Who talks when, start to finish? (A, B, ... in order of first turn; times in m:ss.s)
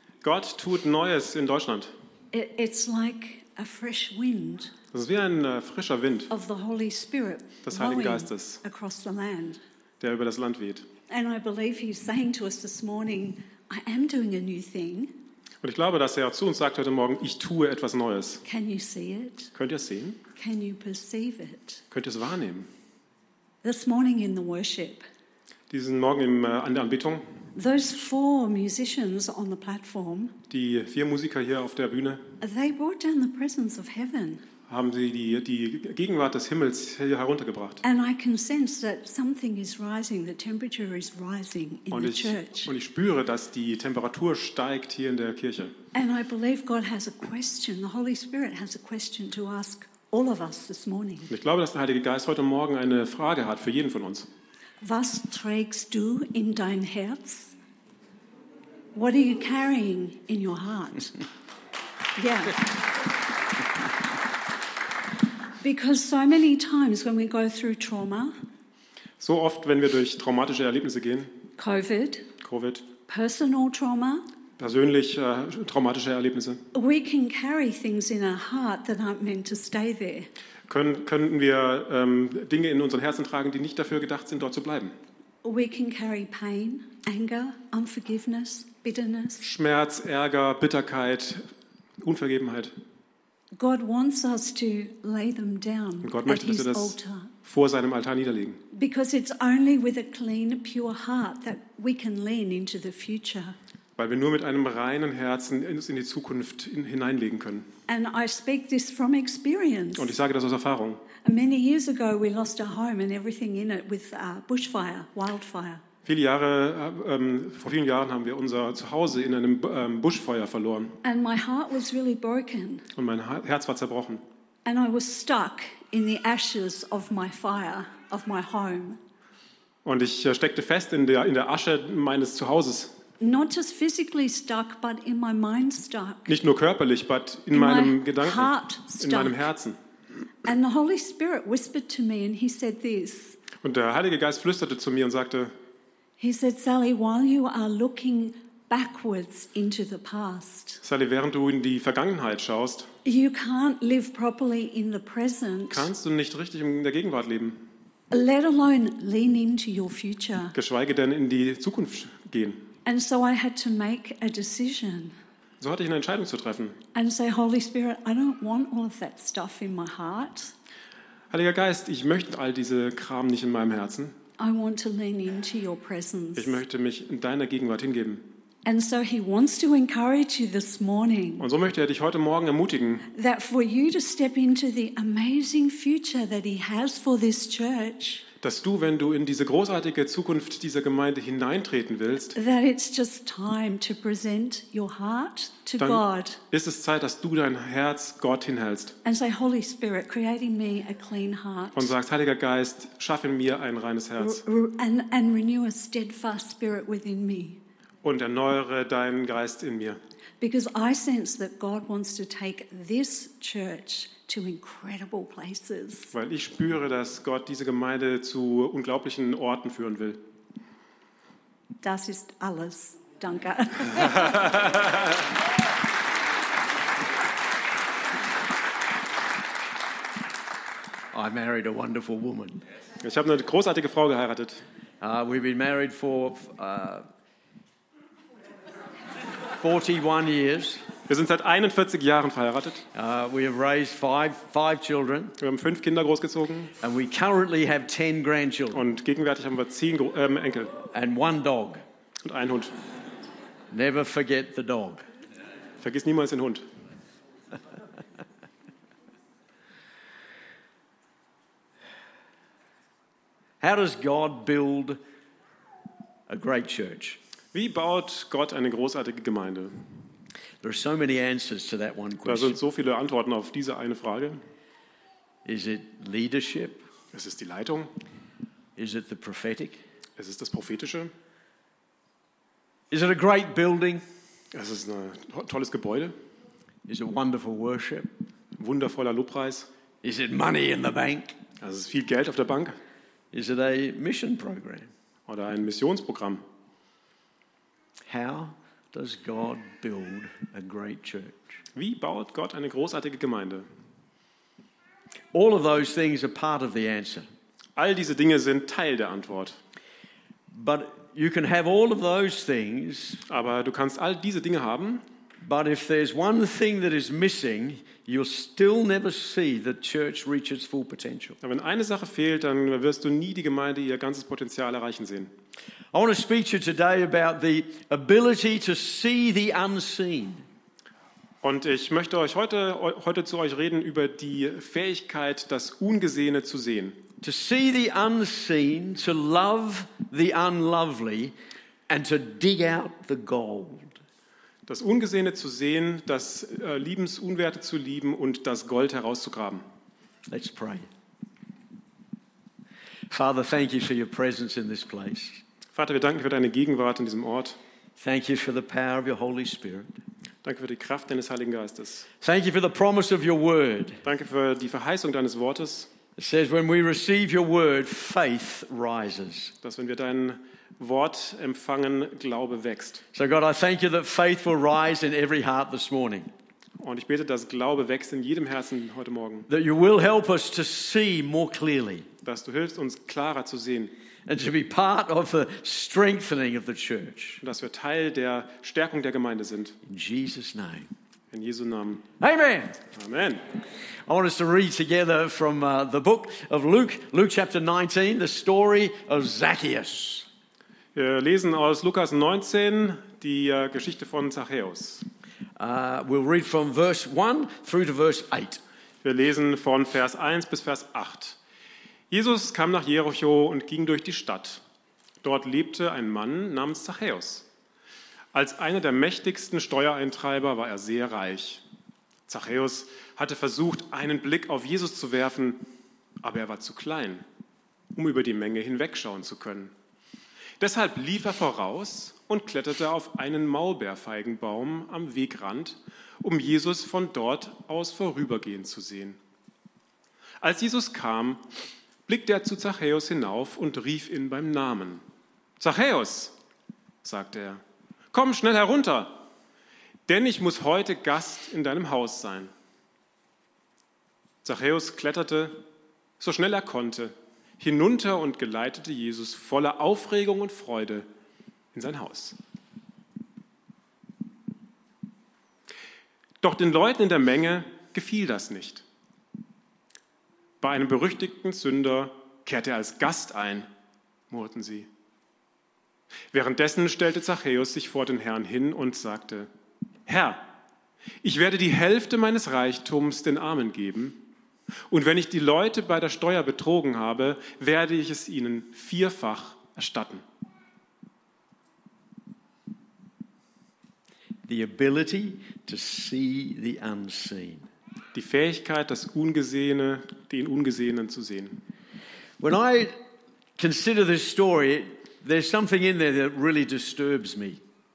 0:00.2-0:01.9 A
0:02.3-0:04.7 B
0:04.9-0:06.3 A
0:06.3-0:09.6 B
0:07.6-0:08.6 A
0:10.0-0:10.9 A
0:11.1-0:15.1 B
0:15.6-0:18.4 A
0:18.5-0:19.5 B
0:19.6-0:20.2 A
0:20.4-0:21.8 B
0:21.9-0:22.7 A
0:23.6-0:25.0 B
0:25.7-0:27.2 A
0:27.6-0:30.4 B
0:30.5-0:32.2 A
0:32.4-0:34.4 B
0:34.7-0:37.8 A
0:37.8-0:42.7 B
0:41.9-0:45.7 A
0:45.9-0:51.3 B
0:51.3-0:54.3 A
0:54.8-0:57.5 B
0:58.9-1:01.2 B
1:02.2-1:02.6 B
1:05.6-1:08.3 B
1:09.2-1:11.4 A
1:11.6-1:12.3 B
1:12.4-1:12.9 A
1:13.1-1:14.2 B
1:14.6-1:16.6 A
1:16.7-1:20.3 B
1:20.7-1:25.0 A
1:25.4-1:29.4 B
1:29.4-1:31.4 A
1:32.0-1:32.7 A
1:33.6-1:37.3 B
1:36.0-1:38.6 A
1:38.7-1:43.6 B
1:44.0-1:47.7 A
1:47.9-1:50.1 B
1:50.0-1:51.0 A
1:51.2-1:55.8 B
1:56.0-2:01.0 A
2:01.0-2:02.9 B
2:03.0-2:04.2 A
2:04.6-2:09.0 B
2:09.8-2:13.0 A
2:13.2-2:16.3 B
2:16.3-2:19.8 A
2:17.5-2:19.4 B
2:20.4-2:23.4 B
2:23.6-2:25.5 A
2:26.2-2:30.8 B
2:30.8-2:32.9 A
2:33.0-2:35.9 B
2:35.7-2:37.6 A
2:38.1-2:40.5 B
2:40.5-2:42.7 A
2:42.9-2:45.2 B
2:45.6-2:46.8 A
2:46.9-2:50.5 B
2:51.3-2:54.1 A
2:54.4-2:56.6 B
2:56.4-2:58.3 A
2:58.6-3:01.5 B
3:01.4-3:03.1 A
3:03.1-3:08.2 B
3:08.4-3:12.4 A
3:12.4-3:16.4 B
3:15.8-3:19.0 A
3:19.0-3:21.9 B
3:21.8-3:24.4 A
3:24.2-3:27.6 B
3:28.0-3:30.0 A
3:30.4-3:36.1 B
3:36.1-3:40.2 A
3:41.8-3:44.6 B
3:44.4-3:44.8 A
3:51.1-3:52.6 C
3:53.0-3:54.6 A
3:55.0-3:57.1 C
3:59.6-4:00.8 C
4:01.1-4:02.8 A
4:02.9-4:05.4 C
4:05.4-4:06.7 A
4:06.8-4:08.9 C
4:08.7-4:10.7 A
4:10.9-4:11.8 C
4:12.2-4:12.7 A
4:13.7-4:15.0 C
4:15.8-4:16.6 A
4:23.6-4:25.0 C
4:26.3-4:27.2 C
4:27.5-4:29.7 A
4:30.6-4:32.6 C
4:32.3-4:34.4 A
4:35.4-4:36.8 C
4:37.1-4:37.9 A
4:38.8-4:39.8 C
4:40.2-4:41.1 A
4:42.9-4:44.0 C
4:44.5-4:46.2 A
4:46.9-4:48.1 C
4:48.6-4:49.7 A
4:50.0-4:51.4 C
4:51.6-4:52.8 A
4:53.3-4:54.9 C
4:55.3-4:56.4 A
4:58.1-5:01.6 C
5:01.8-5:03.7 A
5:05.3-5:07.3 C
5:07.8-5:09.6 A
5:10.5-5:13.2 C
5:13.3-5:15.0 A
5:15.4-5:21.4 C
5:21.4-5:25.3 A
5:25.9-5:30.4 C
5:31.4-5:37.0 A
5:37.2-5:41.3 C
5:41.9-5:44.0 C
5:44.7-5:49.6 A
5:50.3-5:50.9 C
5:53.1-5:55.4 C
5:55.8-5:57.6 A
5:58.0-5:59.9 C
6:00.4-6:02.1 A
6:02.2-6:04.0 C
6:04.0-6:05.9 A
6:06.2-6:09.5 C
6:09.6-6:13.0 A
6:13.1-6:16.3 C
6:16.8-6:19.5 A
6:19.5-6:22.1 C
6:22.2-6:23.9 A
6:24.3-6:27.4 C
6:27.4-6:29.8 A
6:29.8-6:30.9 C
6:31.3-6:32.0 A
6:32.2-6:32.8 C
6:32.9-6:33.4 A
6:34.1-6:40.3 C
6:41.0-6:45.0 A
6:45.6-6:48.6 C
6:49.0-6:51.4 A
6:52.1-6:54.6 A
6:55.2-6:57.5 A
6:58.3-7:01.6 A
7:02.3-7:05.6 A
7:06.2-7:07.2 A
7:08.0-7:09.7 A
7:10.6-7:19.2 A
7:20.4-7:21.4 A
7:22.1-7:25.0 A
7:25.6-7:26.4 A
7:27.0-7:27.6 A
7:28.1-7:29.2 A
7:30.1-7:32.5 A
7:34.4-7:35.6 A
7:36.2-7:41.1 A
7:41.7-7:42.4 A
7:46.4-7:48.8 A
7:50.6-7:53.7 A
7:54.3-7:54.9 A
7:56.3-7:59.5 A
8:00.1-8:00.5 A
8:01.2-8:04.2 A
8:04.9-8:10.2 A
8:14.5-8:17.7 C
8:18.1-8:21.6 A
8:22.4-8:23.0 C
8:23.6-8:27.6 C